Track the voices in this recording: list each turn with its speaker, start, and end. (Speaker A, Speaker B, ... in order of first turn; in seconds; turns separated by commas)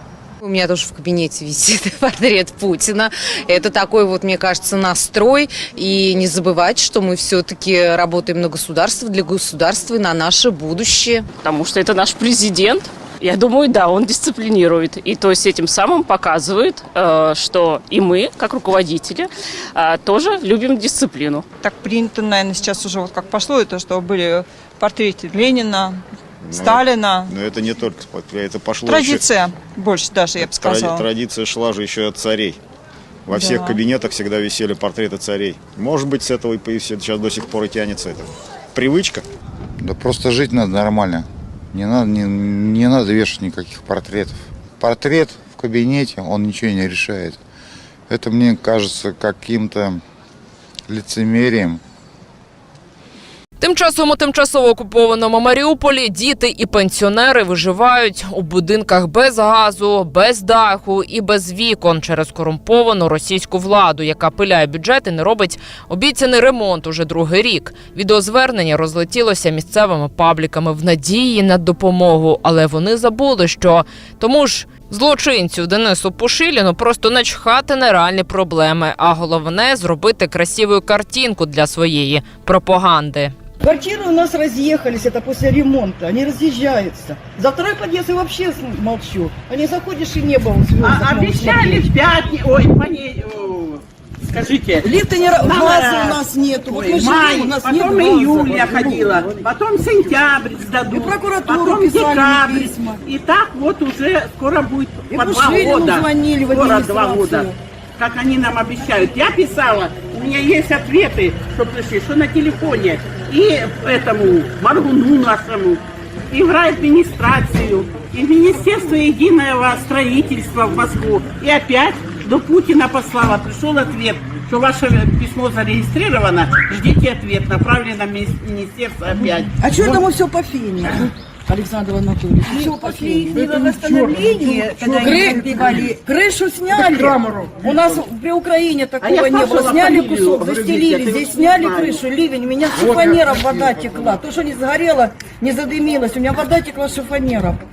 Speaker A: 0.4-11.3, Speaker B: 11.4-21.4, Speaker C: 21.6-26.0, Speaker D: 26.4-32.6, Speaker C: 26.6-27.3, Speaker C: 28.9-31.0, Speaker D: 33.3-39.2, Speaker C: 33.3-33.8, Speaker E: 39.8-47.4, Speaker E: 48.1-50.0, Speaker E: 50.9-51.8, Speaker F: 53.6-83.3, Speaker G: 83.6-91.8, Speaker H: 90.8-115.8, Speaker G: 95.3-99.0, Speaker G: 101.2-102.7, Speaker G: 105.1-105.9, Speaker G: 106.5-107.5, Speaker H: 116.3-130.1, Speaker G: 129.6-130.9, Speaker G: 131.5-134.3, Speaker H: 132.4-138.1, Speaker G: 135.0-137.1, Speaker G: 137.6-147.5, Speaker H: 138.9-142.1, Speaker H: 142.7-144.0